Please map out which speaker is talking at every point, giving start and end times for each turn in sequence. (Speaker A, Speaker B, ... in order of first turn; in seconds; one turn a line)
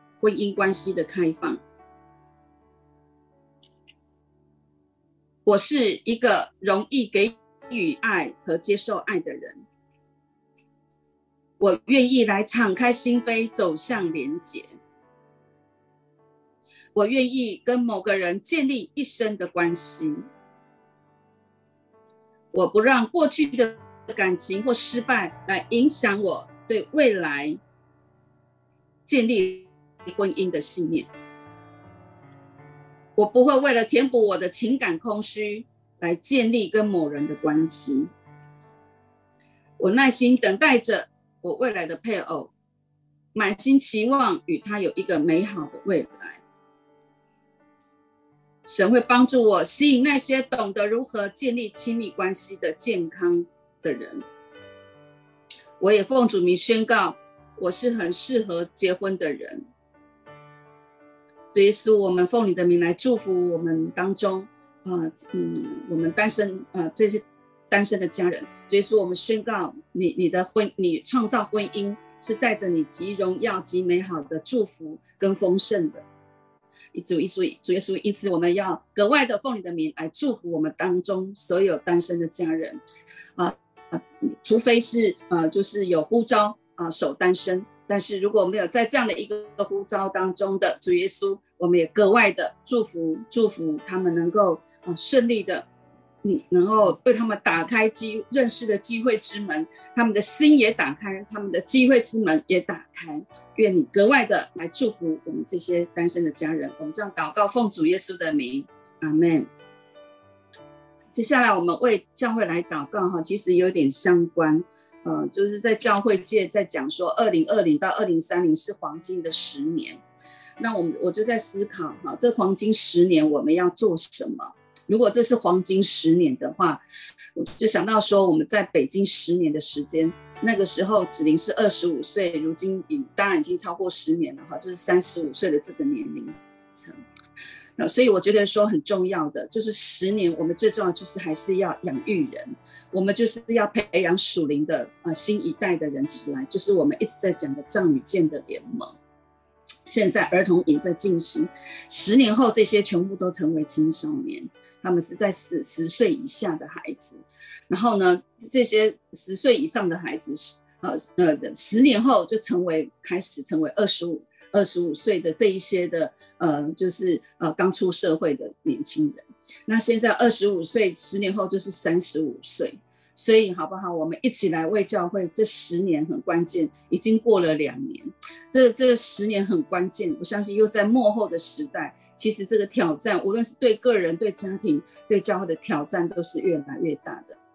Speaker A: 0.2-1.6
Speaker A: 5.4-9.6
Speaker A: 11.6-14.8
Speaker A: 16.9-20.3
Speaker A: 22.5-27.6
Speaker A: 29.1-31.1
Speaker A: 33.1-38.1
Speaker A: 39.8-42.5
Speaker A: 43.3-46.4
Speaker A: 48.7-54.2
Speaker A: 55.8-59.6
Speaker A: 61.5-76.0
Speaker A: 76.9-82.8
Speaker A: 83.4-95.7
Speaker A: 96.2-109.5
Speaker A: 111.1-120.0
Speaker A: 120.6-126.8
Speaker A: 127.3-137.0
Speaker A: 137.8-148.9
Speaker A: 149.9-187.4